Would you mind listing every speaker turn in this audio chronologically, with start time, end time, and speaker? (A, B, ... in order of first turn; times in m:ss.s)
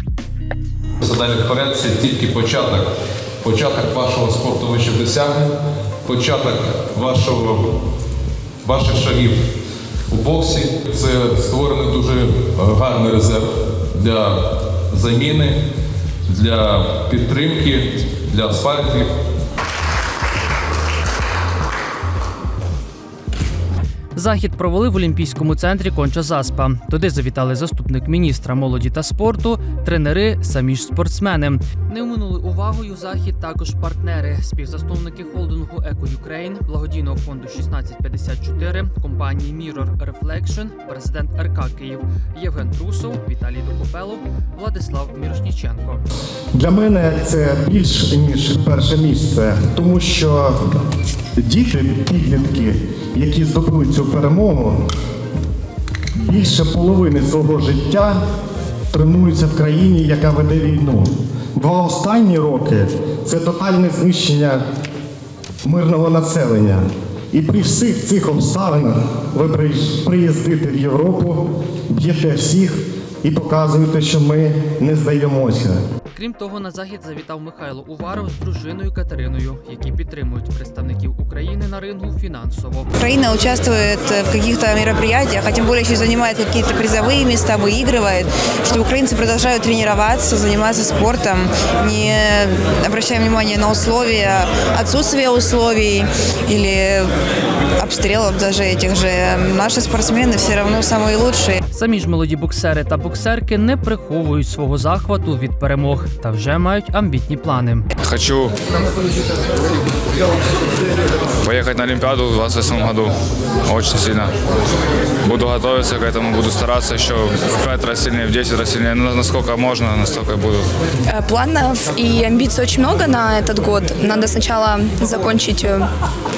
0:01.0-0:02.9 A
0:03.4-0:05.5 A
0:06.0-0:07.6 A
0:08.6-0:09.4 A
0:10.1-0:13.4 A
0:14.0-0:14.3 A
0:14.9-0:15.5 A
0:16.3-0:19.1 A
0:24.1-0:46.0 B
0:46.5-0:50.7 C
0:51.4-0:54.8 C
0:56.2-0:58.2 C
0:58.9-1:04.6 C
1:05.6-1:15.8 C
1:16.1-1:22.9 B
1:23.0-1:37.1 D
1:37.8-1:41.6 D
1:41.7-1:47.9 B
1:48.0-1:48.5 E
1:51.4-1:53.1 E
1:53.7-1:54.3 E
1:55.2-2:00.6 E
2:01.1-2:05.8 F